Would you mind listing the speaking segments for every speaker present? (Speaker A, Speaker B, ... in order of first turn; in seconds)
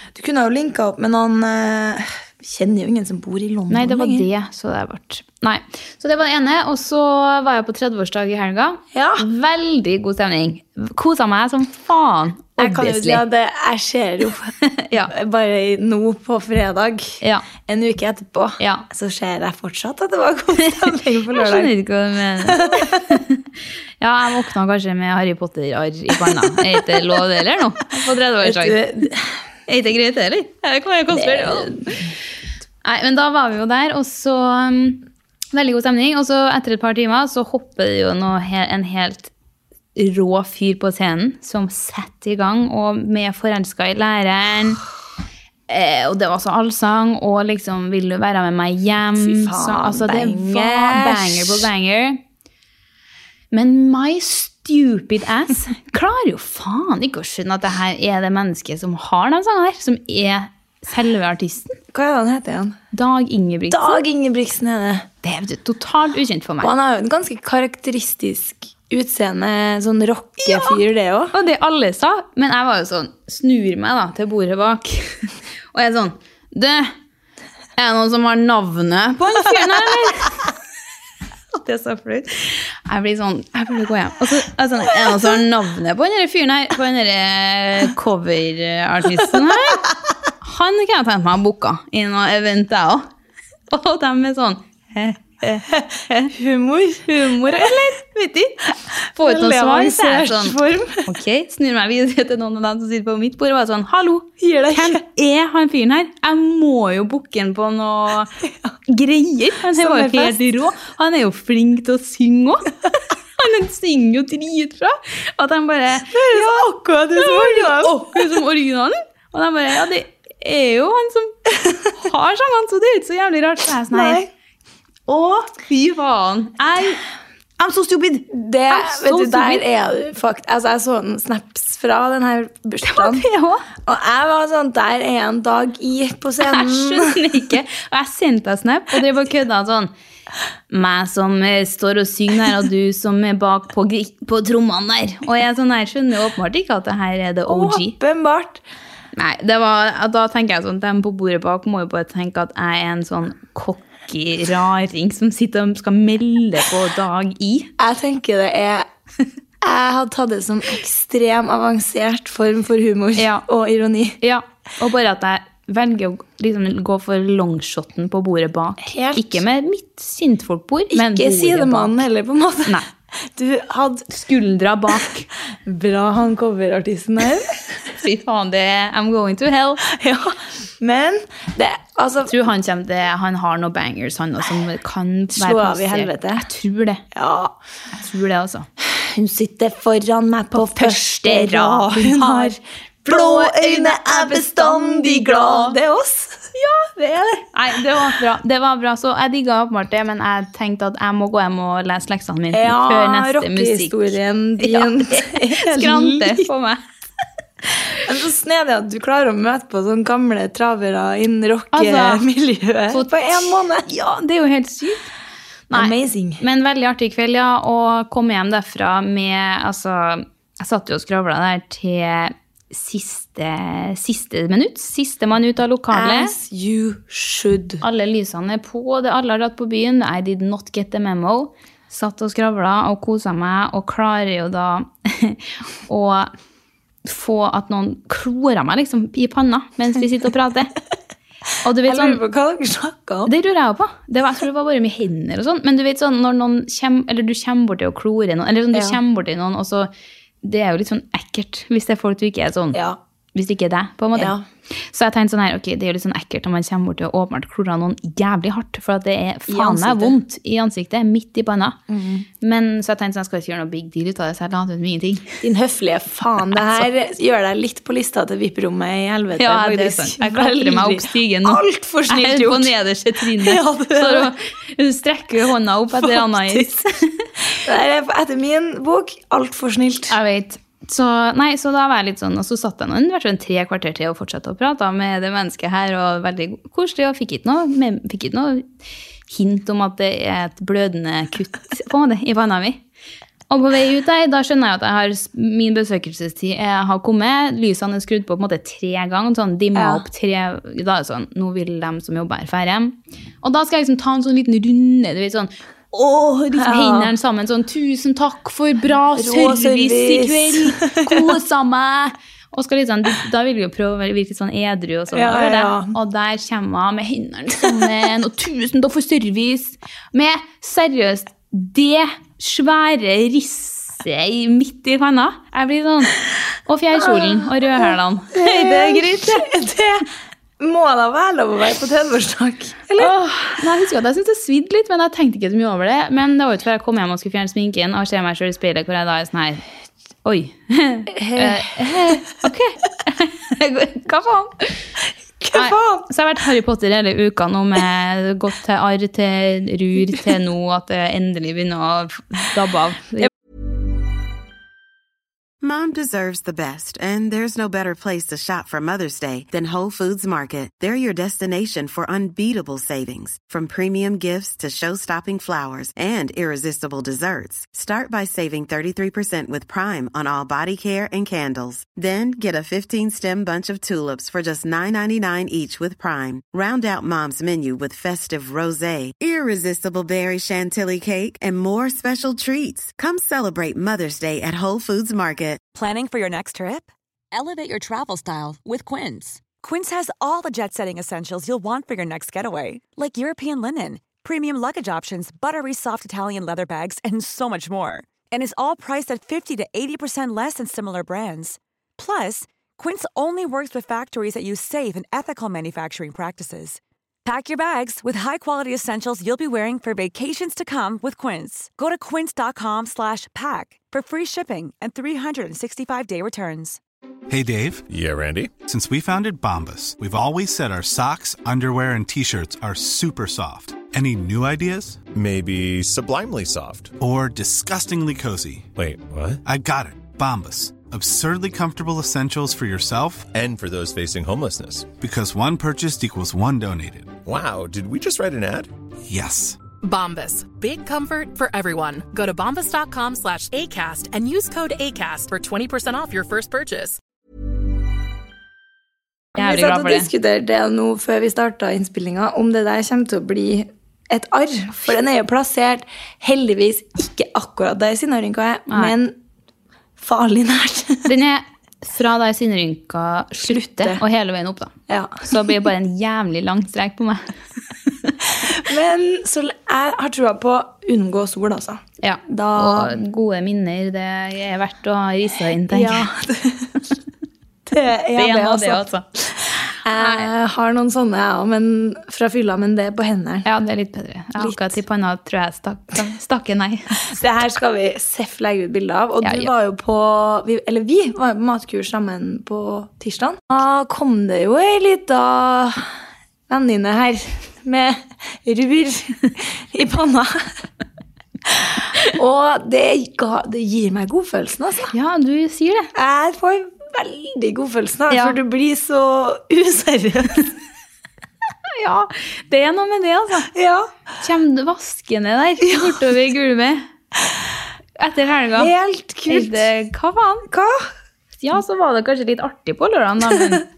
Speaker A: 0.1-4.3, 8.9-9.3, 12.6-14.6, 15.1-21.7, 22.4-23.0, 28.4-29.3, 31.1-32.0, 49.2-51.7, 61.9-62.8, 63.7-65.1, 66.6-71.3, 96.3-97.7, 99.2-101.1, 104.4-105.0, 109.7-110.5, 116.1-118.2, 123.9-124.3, 128.3-133.3, 133.8-137.2, 147.5-148.6, 157.8-158.9, 159.6-164.2, 168.8-169.4, 170.9-172.8, 173.3-174.1, 175.7-177.8, 179.9-182.3, 185.3-186.5, 187.1-187.5, 188.8-196.5, 202.5-206.5, 208.0-213.9, 215.7-216.4, 225.9-227.8, 241.9-243.3, 248.7-249.0, 254.2-254.4, 259.5-260.2, 261.9-262.3, 265.4-274.3, 276.0-276.8, 277.5-280.2, 299.8-300.0, 306.6-307.1, 309.1-311.3, 315.1-315.9, 326.9-330.1, 330.6-333.1, 341.1-342.2, 345.4-346.1, 449.4-459.1, 460.0-461.1, 463.4-464.0, 464.9-465.5, 468.4-473.0, 475.7-476.8, 477.7-483.5, 484.4-484.7, 487.0-495.9, 496.5-500.5, 501.5-504.9, 505.9-510.6, 513.5-513.9, 515.6-516.1, 518.6-519.7, 520.5-520.9
Speaker B: 3.7-13.2, 14.7-15.1, 18.6-18.9, 20.6-23.4, 24.0-28.8, 29.7-32.0, 32.8-39.3, 40.0-44.8, 45.7-52.2, 53.5-61.8, 62.9-64.0, 65.2-66.7, 70.5-70.8, 71.3-76.9, 77.8-80.5, 81.5-89.9, 90.4-93.1, 93.7-96.3, 97.1-108.3, 108.9-112.8, 113.4-121.4, 121.9-124.2, 125.1-127.0, 127.6-129.6, 132.8-133.7, 136.4-139.9, 140.7-147.9, 149.2-157.7, 163.2-163.4, 164.2-172.0, 174.1-175.3, 178.0-179.8, 182.3-187.0, 187.9-188.7, 190.6-192.6, 193.1-195.8, 196.6-206.8, 211.7-212.2, 212.9-215.1, 215.7-226.3, 227.8-236.3, 237.1-240.7, 241.6-242.2, 243.3-249.9, 250.4-252.8, 253.3-254.3, 254.9-261.8, 262.4-265.4, 269.4-277.3, 280.1-288.7, 289.3-292.8, 293.5-329.5, 333.0-339.6, 340.2-344.8, 345.5-353.3, 449.4-450.1, 461.1-467.3, 472.0-476.1, 478.1-479.0, 480.0-480.3, 483.4-487.0, 489.2-489.5, 504.9-505.9, 508.1-508.4, 511.7-513.5, 514.2-516.9, 518.0-518.7, 519.3-520.5, 521.4-523.6
Speaker C: 355.6-385.6
Speaker D: 385.7-416.8
Speaker E: 417.3-417.9, 418.6-425.1, 427.0-428.7, 429.4-433.3, 435.0-437.2, 439.1-439.6
Speaker F: 417.9-418.5, 425.1-426.9, 428.8-429.4, 433.3-434.9, 437.2-438.7
Speaker G: 439.8-447.0